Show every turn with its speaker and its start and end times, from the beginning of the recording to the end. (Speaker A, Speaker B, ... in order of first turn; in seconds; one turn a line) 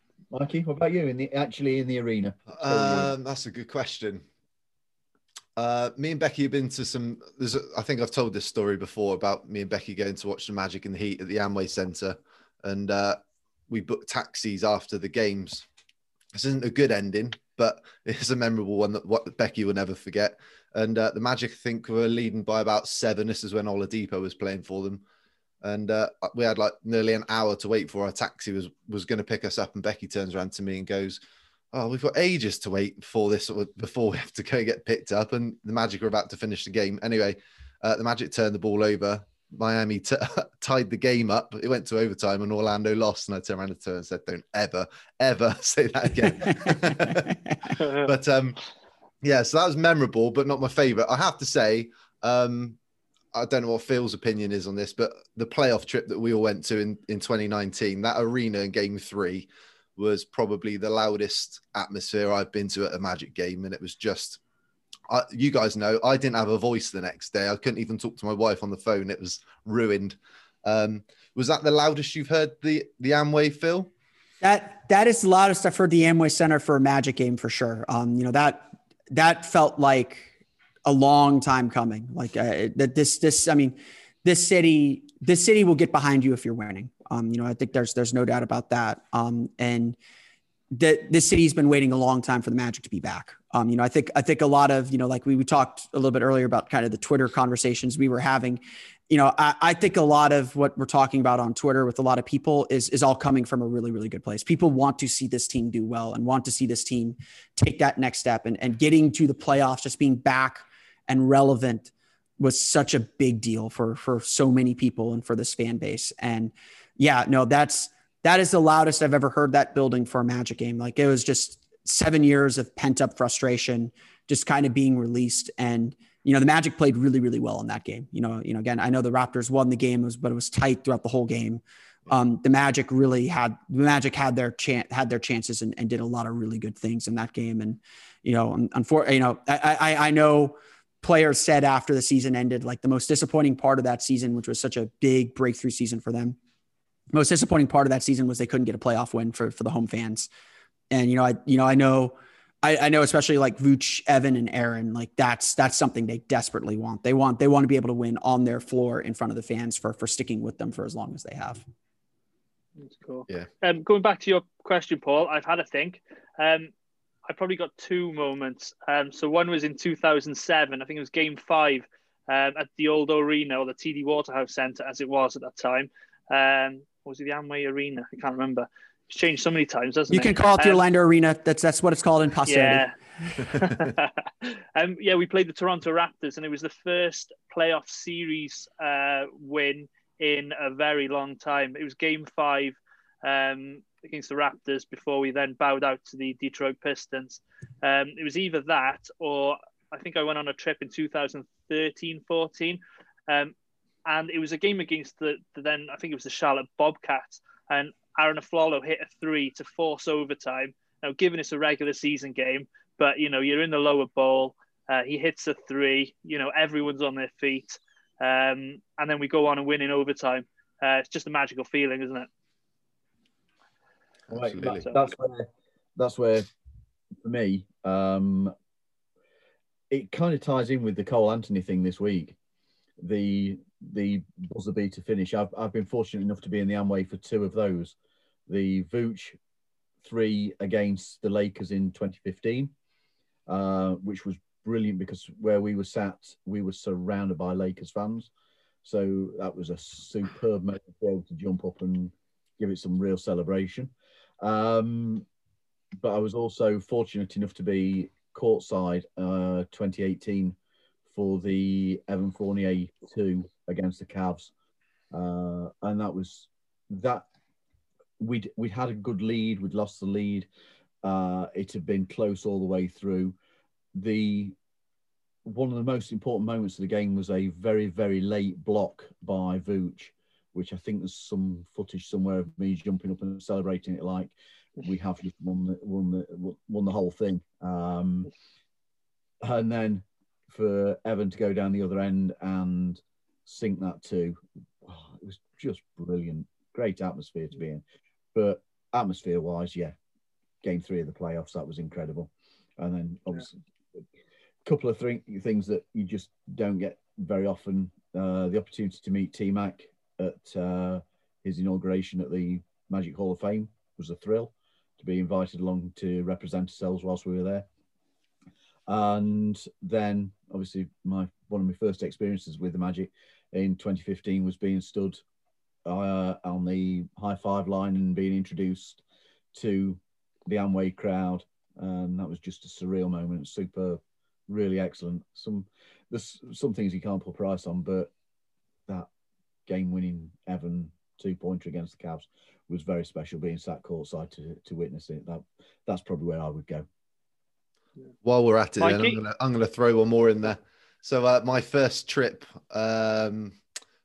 Speaker A: 0.3-3.1
Speaker B: 2.5-4.2
Speaker B: 5.6-15.7
Speaker B: 16.3-25.0
Speaker B: 25.6-31.2
Speaker B: 31.7-48.6
Speaker C: 46.3-47.6
Speaker D: 47.8-48.1
Speaker B: 49.2-52.8
Speaker B: 53.3-64.4
Speaker B: 65.1-73.9
Speaker C: 74.4-80.3
Speaker C: 80.9-90.0
Speaker C: 90.7-146.4
Speaker C: 147.1-150.3
Speaker C: 150.9-161.6
Speaker D: 162.8-166.7
Speaker D: 167.3-180.8
Speaker C: 180.1-182.8
Speaker D: 182.5-182.9
Speaker D: 183.4-203.5
Speaker D: 204.1-222.3
Speaker A: 224.3-226.5
Speaker B: 224.3-224.9
Speaker A: 227.2-228.5
Speaker A: 229.9-232.4
Speaker A: 233.0-237.9
Speaker A: 238.5-239.4
Speaker A: 240.0-242.7
Speaker A: 243.5-248.3
Speaker A: 248.8-255.3
Speaker A: 256.0-260.6
Speaker A: 261.1-264.5
Speaker A: 265.1-267.2
Speaker A: 268.2-270.5
Speaker A: 271.0-273.4
Speaker A: 273.9-274.6
Speaker A: 275.4-288.3
Speaker A: 289.4-299.9
Speaker A: 300.6-303.5
Speaker A: 304.6-317.7
Speaker A: 318.9-325.2
Speaker A: 325.9-329.0
Speaker A: 329.5-338.1
Speaker A: 339.7-346.9
Speaker B: 348.2-353.6
Speaker D: 348.8-349.2